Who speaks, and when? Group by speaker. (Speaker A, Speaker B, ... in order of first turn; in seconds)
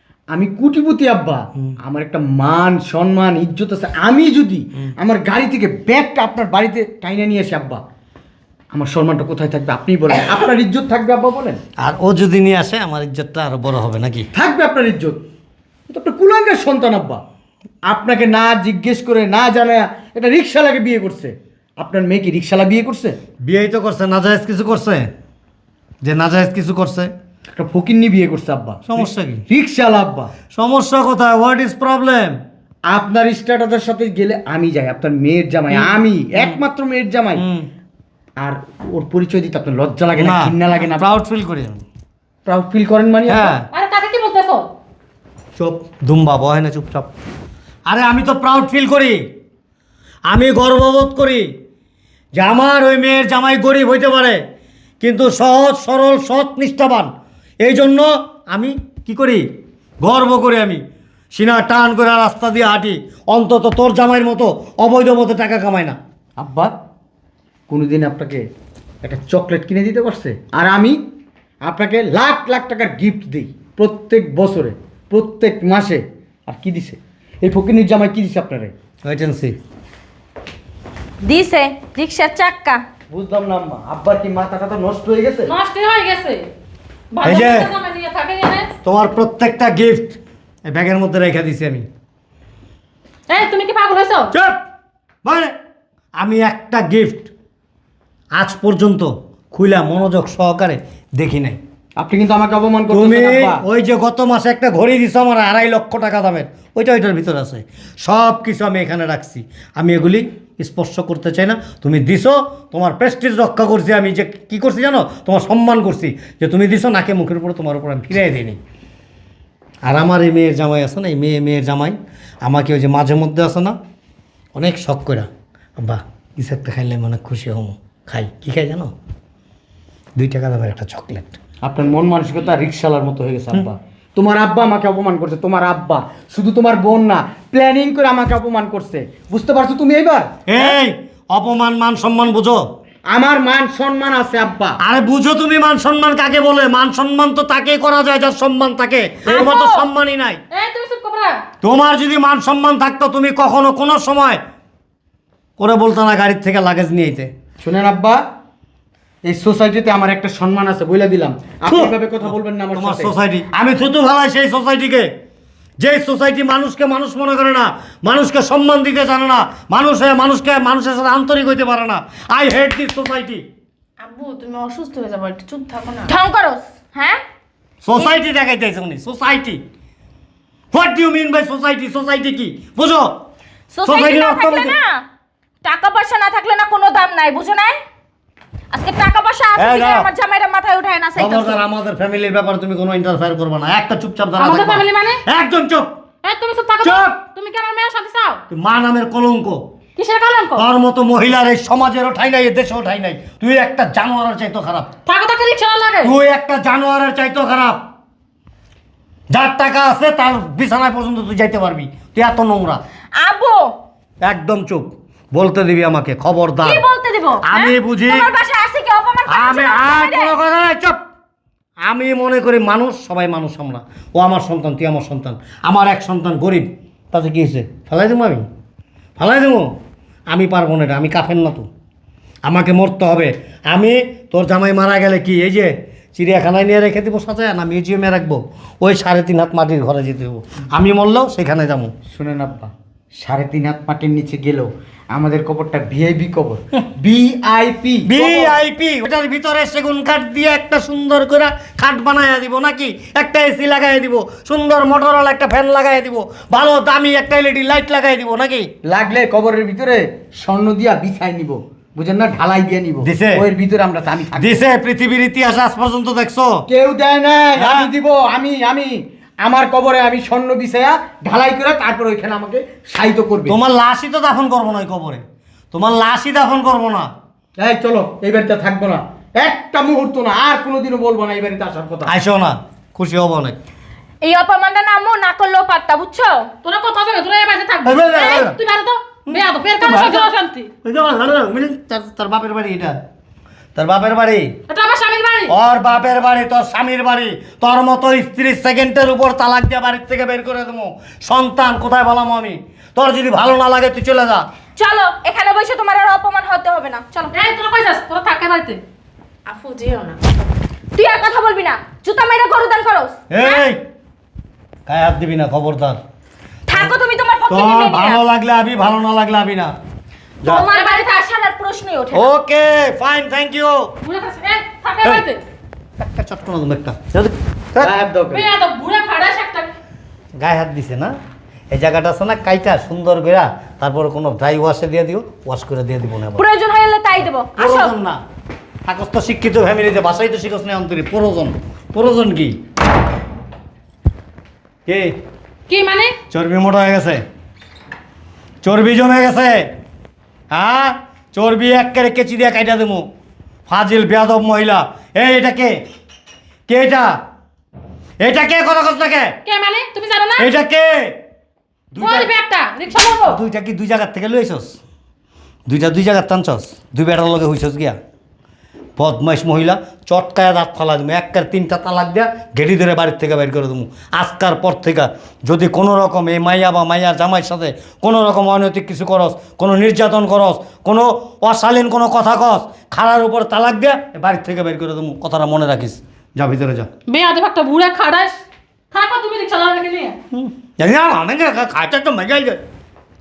Speaker A: 0.3-7.8, 8.7-11.6, 14.3-15.2, 15.9-17.2, 17.9-23.2, 27.5-30.3, 32.9-37.4, 38.4-41.1, 42.5-43.5, 66.4-66.7, 67.7-68.4, 69.0-71.0, 71.6-78.7, 83.1-85.5, 102.0-103.6, 131.6-140.7, 143.1-144.8, 157.6-158.2, 159.2-163.1, 242.1-248.6, 258.9-264.5, 266.7-273.6, 277.6-282.1, 327.8-328.5
Speaker B: 11.8-14.3, 23.4-25.1, 26.0-27.1, 28.9-29.4, 30.5-32.4, 35.7-36.6, 37.4-37.7, 40.1-41.8, 43.3-43.7, 45.6-47.1, 47.9-49.2, 50.3-51.5, 52.4-54.4, 55.0-59.4, 60.0-60.8, 61.3-66.0, 79.0-79.6, 87.2-87.7, 88.8-91.8, 94.3-94.6, 95.2-95.5, 96.2-97.3, 98.3-101.6, 102.9-118.6, 119.8-123.8, 124.5-128.9, 130.2-131.4, 140.5-142.6, 144.8-150.4, 151.6-154.4, 155.6-157.3, 161.7-165.1, 165.8-173.4, 177.8-179.6, 180.7-183.2, 183.8-184.8, 189.6-190.1, 191.2-195.9, 196.8-197.2, 198.5-199.6, 200.6-204.9, 206.0-207.8, 209.3-212.8, 214.2-216.8, 217.4-218.3, 219.3-221.0, 221.8-228.4, 229.2-229.7, 230.3-231.7, 232.4-241.9, 248.1-258.7, 263.0-263.4, 264.4-266.6, 267.6-267.9, 273.5-277.1, 282.1-283.6, 287.8-288.6, 289.3-290.3, 290.8-293.0, 293.7-294.5, 295.5-304.4, 313.3-313.8, 314.9-316.0, 317.5-319.7, 322.1-323.9, 326.0-327.9, 330.4-331.1, 331.7-336.4, 337.6-338.2, 338.8-342.6, 344.9-345.1, 346.3-347.2, 348.6-349.7, 350.5-353.1, 353.7-355.8, 356.7-357.2, 358.2-359.4, 360.4-361.2, 361.9-362.3, 363.2-364.8, 365.7-368.0, 369.0-386.9, 390.3-392.6
Speaker C: 43.7-44.7, 85.5-86.4, 87.1-88.7, 93.3-94.3, 150.5-151.4, 194.4-195.2, 196.2-198.4, 200.0-200.7, 205.1-206.2, 286.6-290.7, 294.7-295.5, 307.3-308.8, 320.5-321.3, 324.0-325.4, 328.3-329.7, 345.7-346.1, 359.4-360.5, 362.0-363.4, 387.1-388.4, 388.9-390.2
Speaker D: 81.2-82.8, 149.3-149.8, 176.1-177.2, 183.7-185.0, 185.6-187.8, 188.7-191.6, 213.2-213.7, 216.6-220.3, 284.2-286.5, 304.8-307.5, 310.9-313.6, 316.7-318.2, 320.4-322.3, 336.4-337.9
Speaker E: 174.0-176.1, 309.5-310.2